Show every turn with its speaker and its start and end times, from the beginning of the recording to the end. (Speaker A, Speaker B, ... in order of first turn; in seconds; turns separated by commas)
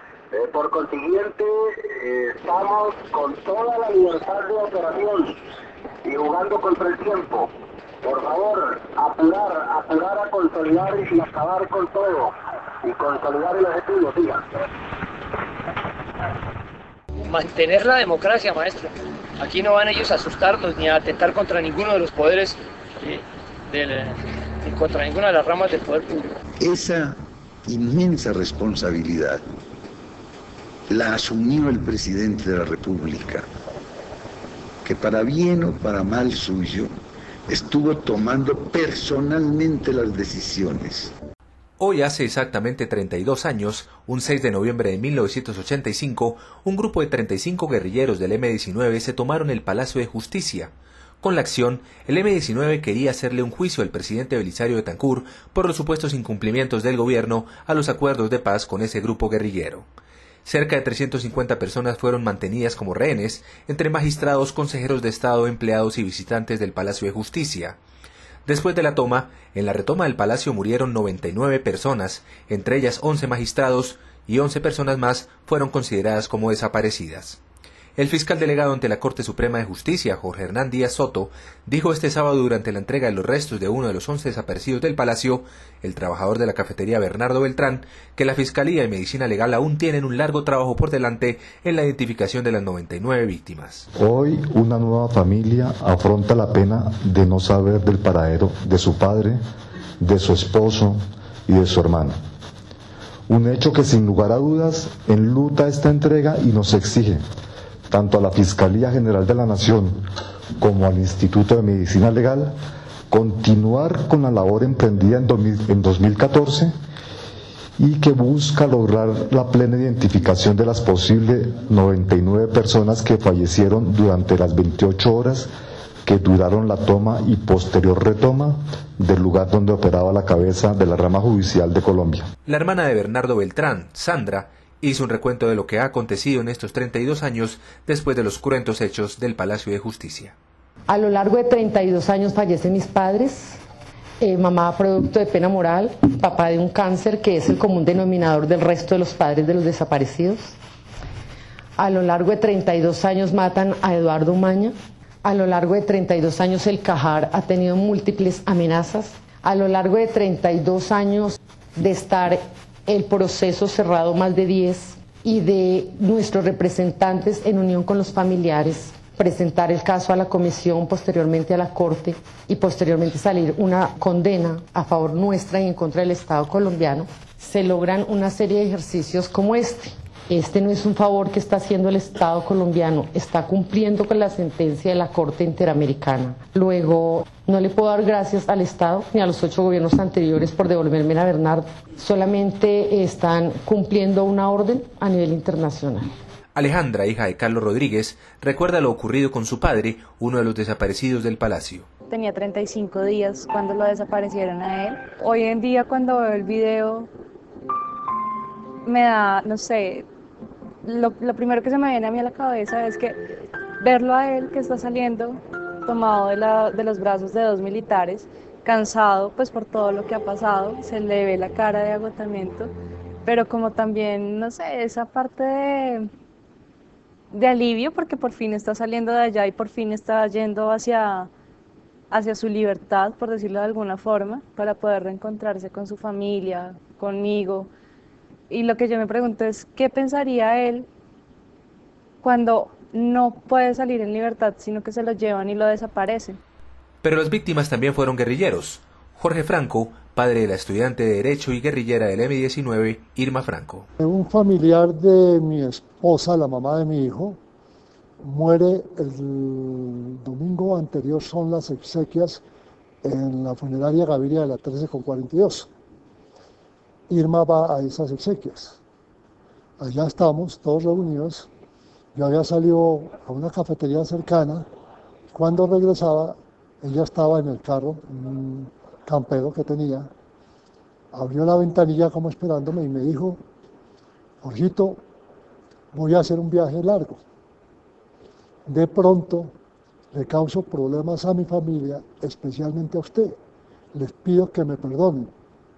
Speaker A: 0.3-5.3, Speaker A: 6.0-7.5, Speaker A: 8.0-14.4, Speaker B: 17.2-26.3, Speaker C: 26.6-29.4, Speaker C: 30.9-33.5, Speaker C: 34.8-36.9, Speaker C: 37.5-41.1, Speaker D: 41.8-59.9, Speaker D: 60.4-67.8, Speaker D: 68.5-77.4, Speaker D: 78.0-93.8, Speaker E: 94.0-99.4, Speaker E: 100.0-102.2, Speaker E: 103.3-107.2, Speaker E: 107.9-110.0, Speaker E: 110.6-112.5, Speaker E: 113.1-116.7, Speaker E: 117.8-125.5, Speaker E: 126.0-132.3, Speaker D: 132.4-140.3, Speaker F: 140.9-143.6, Speaker F: 144.2-150.6, Speaker F: 151.8-196.1, Speaker D: 196.5-201.9, Speaker G: 202.1-207.1, Speaker G: 208.8-210.1, Speaker G: 210.8-213.2, Speaker G: 213.8-222.7, Speaker G: 223.2-226.1, Speaker G: 227.3-231.3, Speaker G: 232.1-237.7, Speaker G: 238.5-240.9, Speaker G: 242.2-246.4, Speaker D: 247.0-253.9, Speaker H: 254.0-257.4, Speaker H: 258.2-262.4, Speaker H: 263.0-265.7, Speaker H: 267.1-268.8, Speaker H: 269.8-271.5, Speaker H: 272.1-274.7, Speaker H: 275.3-280.1, Speaker H: 281.1-283.4, Speaker H: 284.4-285.0, Speaker H: 285.9-287.2, Speaker H: 288.6-289.5, Speaker H: 290.1-293.4, Speaker H: 293.9-295.3